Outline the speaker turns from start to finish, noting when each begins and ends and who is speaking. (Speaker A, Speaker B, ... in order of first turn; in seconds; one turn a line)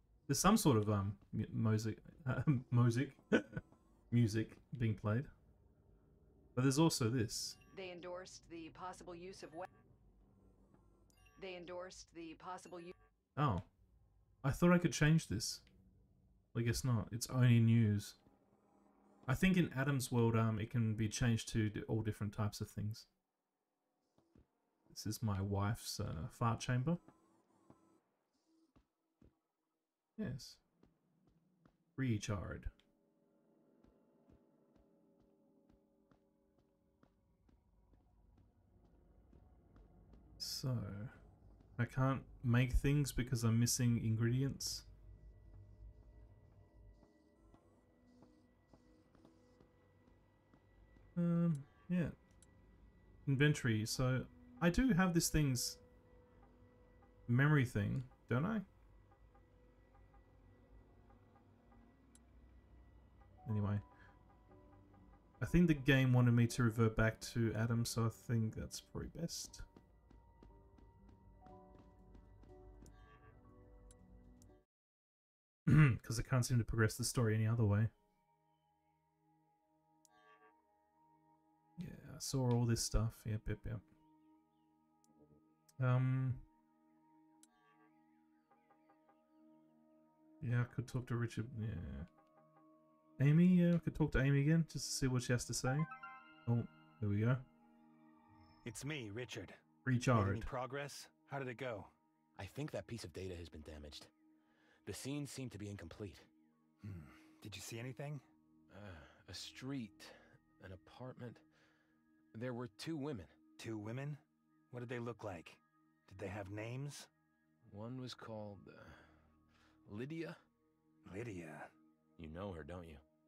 Speaker A: 0.3-5.3
Speaker A: 6.5-7.6
Speaker B: 7.7-9.7
Speaker B: 11.4-12.9
Speaker A: 13.3-13.7
Speaker A: 14.4-15.7
Speaker A: 16.5-18.2
Speaker A: 19.3-23.1
Speaker A: 24.9-27.0
Speaker A: 30.2-30.6
Speaker A: 31.9-32.7
Speaker A: 40.4-41.1
Speaker A: 41.8-44.9
Speaker A: 51.1-52.1
Speaker A: 53.2-55.8
Speaker A: 57.3-58.6
Speaker A: 63.5-63.8
Speaker A: 65.4-69.7
Speaker A: 75.7-77.9
Speaker A: 81.8-83.8
Speaker A: 85.8-86.4
Speaker A: 90.4-92.1
Speaker A: 93.2-95.9
Speaker A: 96.5-97.4
Speaker C: 98.6-99.6
Speaker A: 99.8-100.5
Speaker C: 100.1-101.9
Speaker D: 102.4-104.1
Speaker D: 104.8-106.3
Speaker C: 106.8-108.2
Speaker D: 108.7-111.4
Speaker D: 112.3-113.3
Speaker C: 113.6-117.1
Speaker D: 117.7-119.1
Speaker D: 119.8-120.4
Speaker C: 121.0-121.7
Speaker D: 122.2-123.0